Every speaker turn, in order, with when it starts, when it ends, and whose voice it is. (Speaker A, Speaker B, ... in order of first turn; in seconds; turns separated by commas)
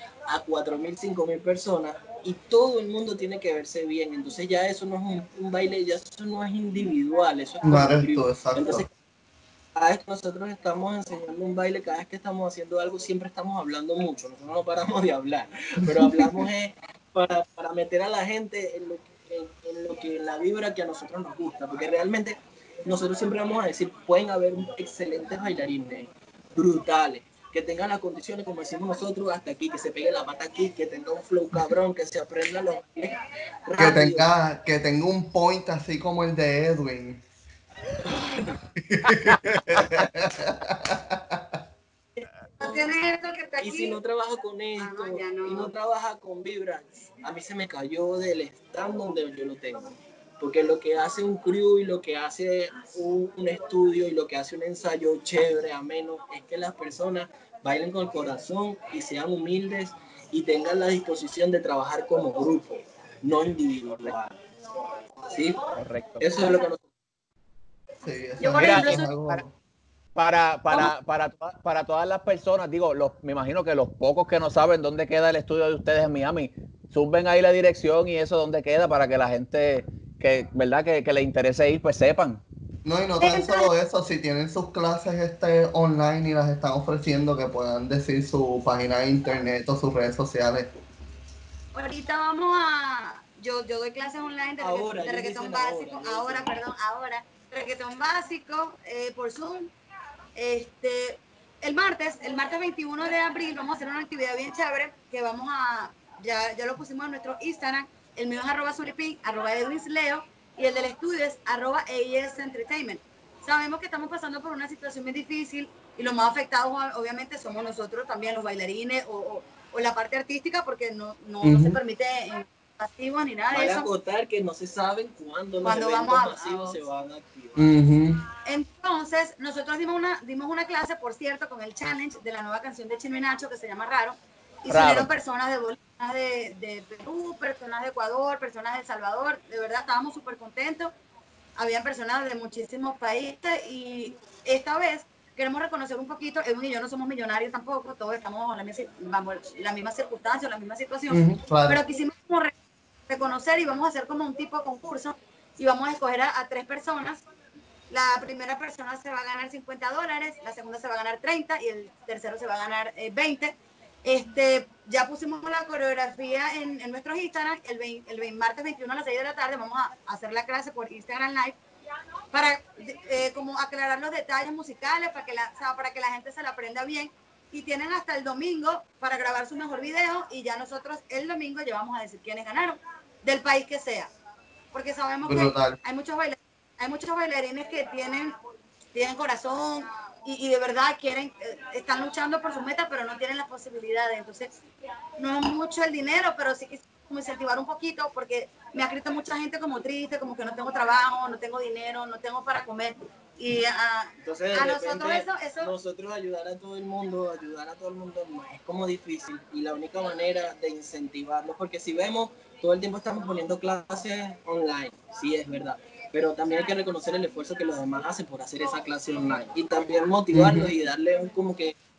Speaker A: 0.3-8.9, Speaker B: 7.6-8.8, Speaker A: 9.7-34.2, Speaker B: 15.9-16.4, Speaker B: 33.8-37.2, Speaker A: 38.2-38.5, Speaker B: 38.8-41.6, Speaker C: 39.2-39.8, Speaker A: 42.1-42.8, Speaker D: 42.6-44.0, Speaker A: 43.6-64.4, Speaker D: 44.8-45.7, Speaker A: 65.3-65.6, Speaker C: 65.8-66.2, Speaker A: 66.2-66.8, Speaker B: 68.0-69.5, Speaker D: 68.4-69.1, Speaker C: 68.5-69.4, Speaker C: 70.2-82.4, Speaker B: 82.8-90.7, Speaker D: 83.2-83.7, Speaker D: 91.7-99.7, Speaker A: 94.6-96.5, Speaker D: 100.3-123.9, Speaker B: 121.4-121.8, Speaker A: 123.5-127.8, Speaker D: 125.6-126.8, Speaker B: 127.5-128.2, Speaker D: 128.4-140.9, Speaker C: 134.7-135.1, Speaker D: 141.6-152.5, Speaker B: 151.1-151.8, Speaker D: 153.1-157.2, Speaker D: 157.9-171.6, Speaker D: 172.3-184.1, Speaker D: 184.7-188.3, Speaker B: 185.2-185.8, Speaker D: 188.9-194.5, Speaker D: 195.2-205.7, Speaker A: 204.2-221.8, Speaker B: 220.3-220.7